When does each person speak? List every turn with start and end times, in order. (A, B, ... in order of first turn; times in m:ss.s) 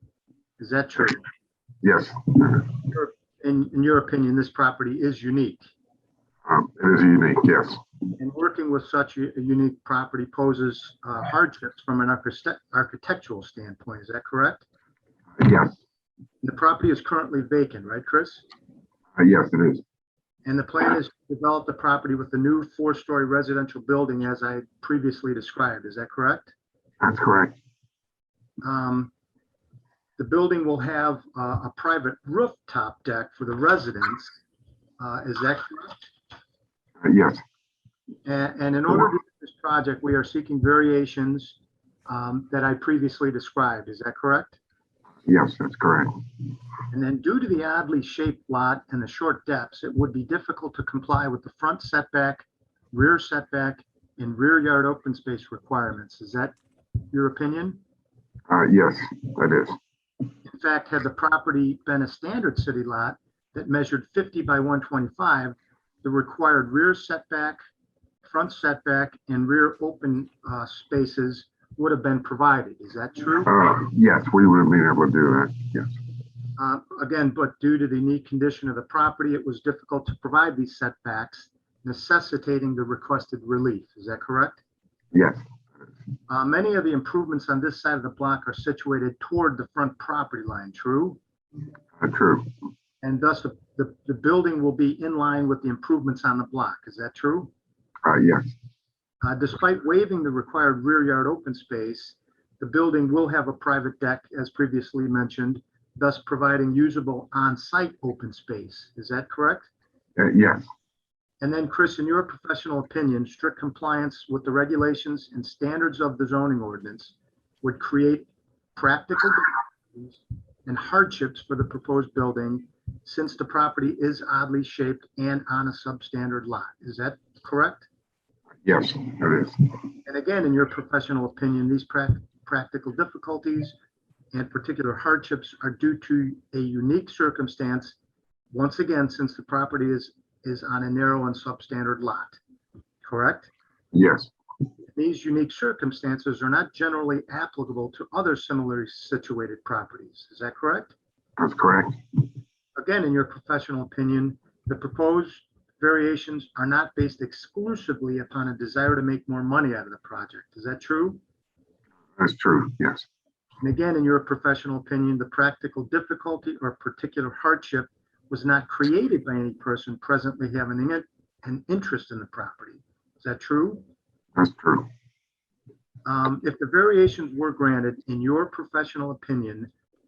0:00.6-0:01.2 A
0:01.8-0:02.7 B
0:02.9-0:05.7 A
0:06.5-0:07.8 B
0:08.2-0:14.6 A
0:15.4-0:15.8 B
0:16.4-0:18.4 A
0:19.2-0:19.8 B
0:20.4-0:26.5 A
0:27.0-0:27.5 B
0:28.6-0:29.1 A
0:30.2-0:34.4 A
0:35.0-0:36.1 A
0:37.0-0:37.4 B
0:38.2-0:44.6 A
0:45.3-0:46.2 B
0:46.9-0:56.5 A
0:57.1-0:57.8 A
0:58.5-0:59.8 B
1:00.4-1:07.6 A
1:08.2-1:13.5 A
1:13.4-1:15.9 B
1:16.6-1:24.6 A
1:25.1-1:25.4 B
1:26.3-1:31.2 A
1:32.0-1:32.5 B
1:33.0-1:37.5 A
1:38.0-1:38.5 B
1:39.2-1:49.7 A
1:50.2-1:50.7 B
1:51.4-2:07.9 A
2:08.6-2:09.7 B
2:10.0-2:13.8 A
2:14.3-2:18.0 A
2:18.5-2:22.4 A
2:23.0-2:23.5 A
2:23.9-2:24.3 B
2:24.9-2:30.9 A
2:31.4-2:32.0 B
2:32.8-2:41.2 A
2:42.2-2:43.1 B
2:43.6-2:53.8 A
2:54.4-2:54.9 B
2:56.1-2:59.7 A